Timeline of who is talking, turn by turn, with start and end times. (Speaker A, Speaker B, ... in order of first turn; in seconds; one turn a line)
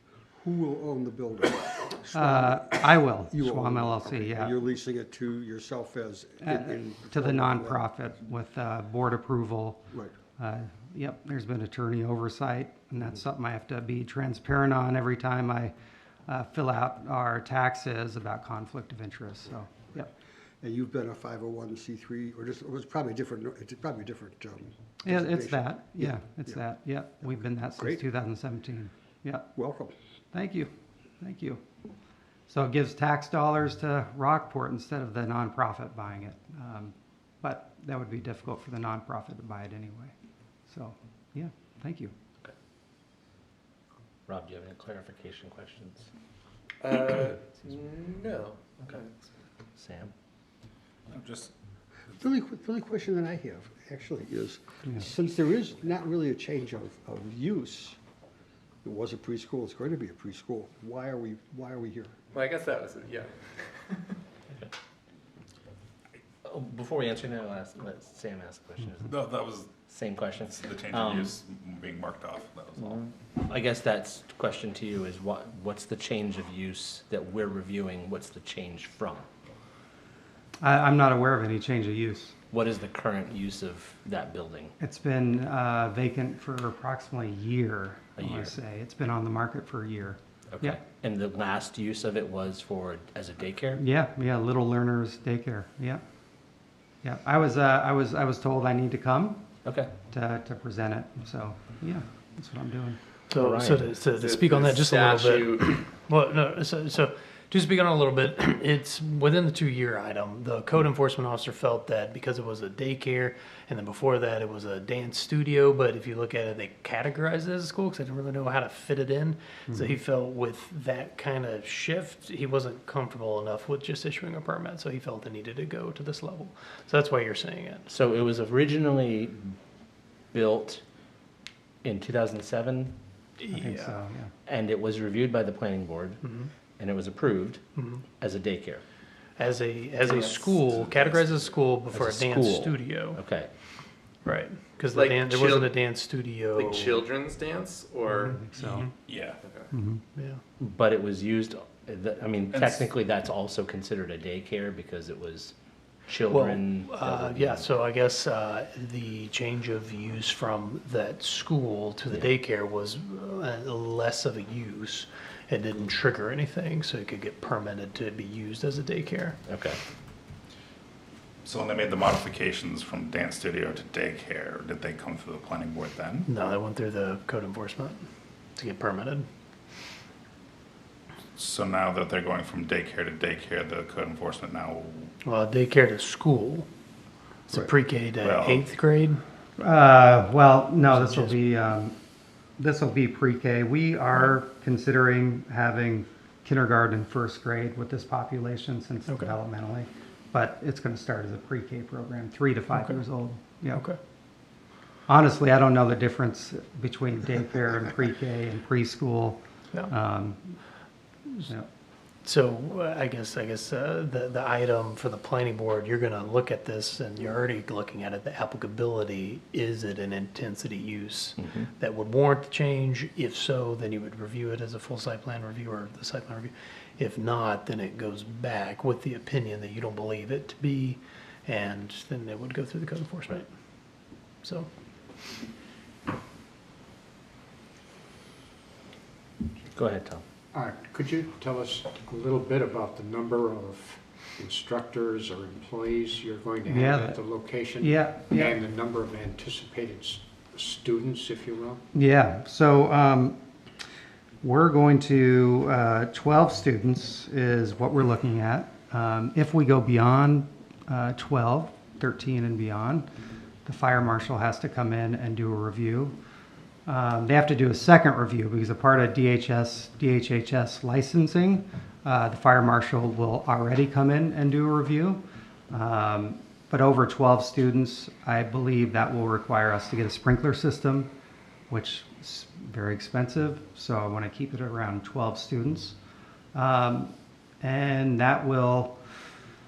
Speaker A: 0.4-8.0
Speaker B: 2.1-4.5
Speaker B: 6.4-9.8
Speaker B: 10.4-15.7
Speaker B: 16.3-20.1
Speaker A: 20.6-26.6
Speaker B: 25.0-29.5
Speaker A: 27.2-28.0
Speaker A: 29.5-29.9
Speaker B: 30.3-31.6
Speaker B: 32.5-40.1
Speaker B: 40.7-42.1
Speaker C: 44.3-46.1
Speaker D: 46.8-49.1
Speaker C: 49.8-50.1
Speaker E: 51.1-51.5
Speaker A: 52.2-58.0
Speaker A: 58.8-62.1
Speaker D: 62.3-64.1
Speaker C: 66.4-69.2
Speaker E: 69.0-69.7
Speaker C: 69.9-71.3
Speaker E: 70.3-73.0
Speaker C: 72.8-79.2
Speaker B: 80.6-82.3
Speaker C: 82.5-84.7
Speaker B: 84.8-90.8
Speaker C: 88.2-88.5
Speaker C: 90.5-93.8
Speaker B: 93.8-96.0
Speaker B: 97.0-99.5
Speaker C: 99.6-99.9
Speaker B: 100.1-103.0
Speaker F: 103.3-127.9
Speaker C: 103.3-103.9
Speaker D: 104.2-105.7
Speaker C: 127.9-129.6
Speaker C: 130.3-130.8
Speaker C: 131.8-132.9
Speaker F: 133.4-134.0
Speaker B: 133.5-134.3
Speaker C: 134.4-136.2
Speaker F: 136.2-136.5
Speaker C: 136.8-137.6
Speaker F: 137.8-138.0
Speaker C: 138.2-138.8
Speaker F: 139.4-143.2
Speaker D: 140.0-140.5
Speaker C: 141.9-143.5
Speaker F: 144.2-147.1
Speaker D: 144.8-145.8
Speaker D: 146.5-148.3
Speaker F: 148.1-148.9
Speaker B: 148.3-148.9
Speaker E: 149.1-149.4
Speaker B: 149.7-150.0
Speaker C: 150.6-155.5
Speaker E: 152.5-152.9
Speaker C: 156.1-157.8
Speaker F: 156.3-169.4
Speaker C: 169.5-169.8
Speaker E: 171.4-176.3
Speaker F: 176.3-178.0
Speaker F: 178.6-179.2
Speaker E: 181.3-185.1
Speaker F: 185.2-186.7
Speaker F: 187.5-189.2
Speaker E: 188.2-188.6
Speaker B: 189.6-191.9
Speaker F: 190.8-191.3
Speaker B: 192.6-203.8
Speaker F: 202.7-203.0
Speaker F: 203.7-204.0
Speaker B: 205.1-210.6
Speaker F: 212.2-233.5
Speaker F: 234.4-234.7
Speaker C: 239.7-240.2
Speaker G: 240.5-251.8
Speaker B: 246.7-247.2
Speaker B: 247.8-248.6
Speaker B: 251.9-253.4
Speaker B: 254.4-263.1
Speaker B: 263.6-266.1
Speaker B: 266.9-281.1
Speaker B: 281.7-285.9
Speaker B: 286.5-289.0